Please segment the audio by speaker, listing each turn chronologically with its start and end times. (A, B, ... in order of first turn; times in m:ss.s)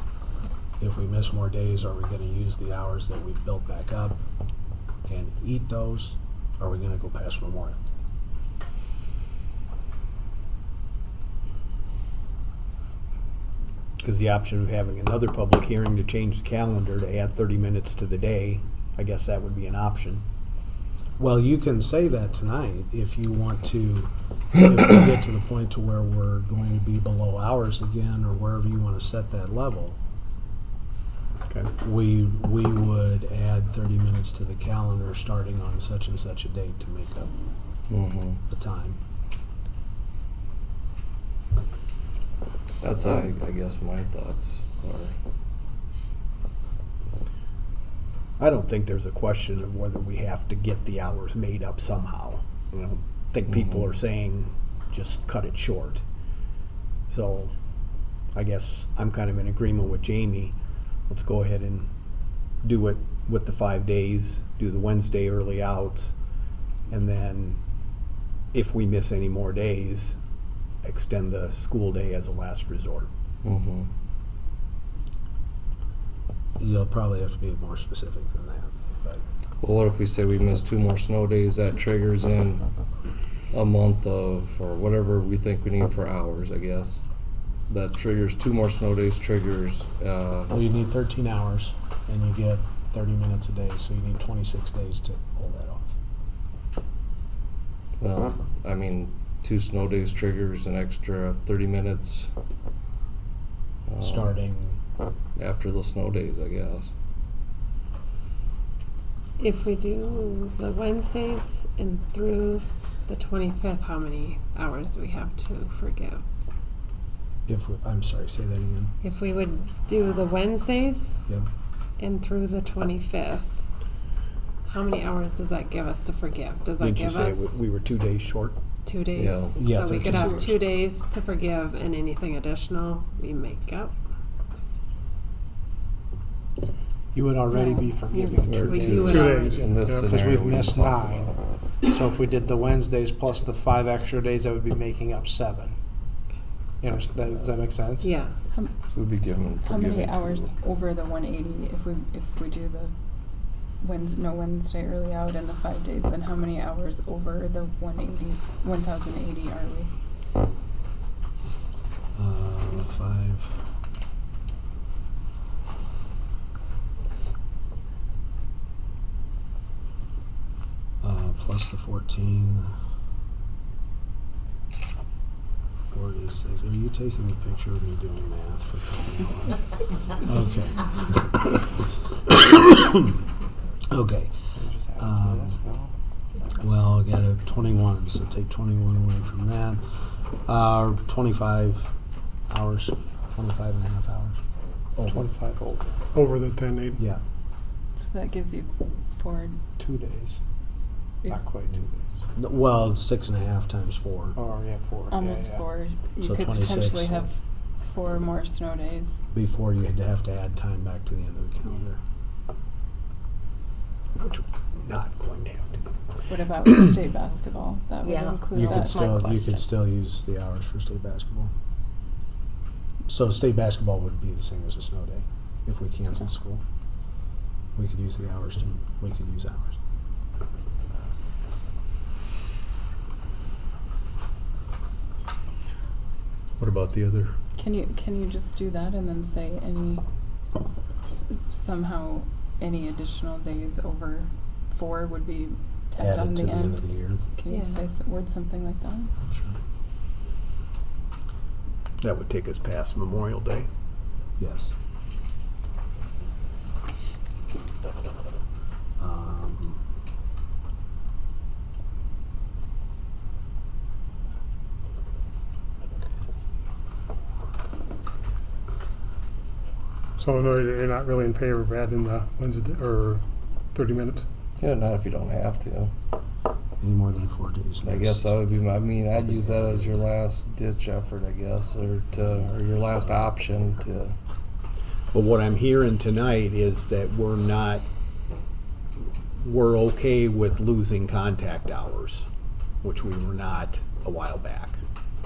0:00.8-0:04.2 A
0:05.1-0:07.8 A
0:14.0-0:20.2 B
0:21.2-0:30.0 A
0:31.8-0:37.3 A
0:37.9-0:38.4 C
0:38.5-0:39.0 A
0:42.8-0:45.2 C
0:48.4-0:56.0 B
0:57.1-0:57.5 B
0:58.3-1:00.6 B
1:01.1-1:01.9 B
1:02.6-1:06.1 B
1:06.9-1:07.6 B
1:08.5-1:10.2 B
1:10.8-1:13.1 B
1:13.4-1:13.9 C
1:16.6-1:19.2 A
1:19.6-1:22.6 C
1:23.5-1:27.1 C
1:27.7-1:30.6 C
1:30.5-1:36.0 A
1:38.0-1:42.3 C
1:43.9-1:44.4 C
1:44.0-1:44.8 A
1:45.4-1:46.9 C
1:49.4-1:56.2 D
1:57.5-1:58.9 A
1:59.0-2:01.2 D
2:02.0-2:03.6 D
2:04.7-2:07.6 D
2:06.8-2:08.6 B
2:08.8-2:13.9 D
2:09.2-2:09.6 C
2:09.6-2:10.6 A
2:17.1-2:19.3 E
2:17.5-2:18.6 F
2:18.4-2:21.4 C
2:18.6-2:19.6 D
2:19.2-2:20.2 G
2:20.2-2:21.3 E
2:21.8-2:25.8 E
2:26.8-2:28.1 E
2:28.0-2:28.4 D
2:28.8-2:30.5 C
2:29.7-2:32.9 F
2:33.8-2:39.9 F
2:42.2-2:43.6 A
2:51.0-2:52.7 A
2:55.9-3:03.1 A
3:03.9-3:05.7 A
3:04.5-3:05.9 E
3:06.6-3:09.8 A
3:10.4-3:11.9 A
3:12.5-3:14.4 A
3:15.0-3:15.3 A
3:15.1-3:16.1 E
3:16.1-3:17.0 G
3:17.0-3:17.2 A
3:18.0-3:19.6 F
3:19.8-3:20.4 E
3:21.3-3:22.1 E
3:22.4-3:24.4 A
3:24.4-3:25.6 E
3:25.1-3:27.2 F
3:26.2-3:27.3 A
3:27.9-3:29.2 F
3:29.3-3:32.0 A
3:34.2-3:35.8 B
3:36.3-3:39.5 F
3:38.5-3:41.5 A
3:43.1-3:46.6 A
3:47.8-3:49.8 A
3:56.6-3:57.4 B
3:57.6-4:00.0 F
4:01.5-4:06.7 F
4:06.0-4:07.2 A
4:07.4-4:09.0 F
4:07.5-4:07.9 D
4:09.2-4:09.6 A
4:12.0-4:13.7 B
4:14.4-4:14.7 A
4:19.0-4:19.8 A
4:30.2-4:34.3 G
4:34.6-4:35.9 C
4:36.8-4:38.2 A
4:37.8-4:44.2 C
4:39.2-4:40.0 A
4:45.1-4:47.8 B
4:49.4-4:52.2 B
4:52.8-4:54.8 B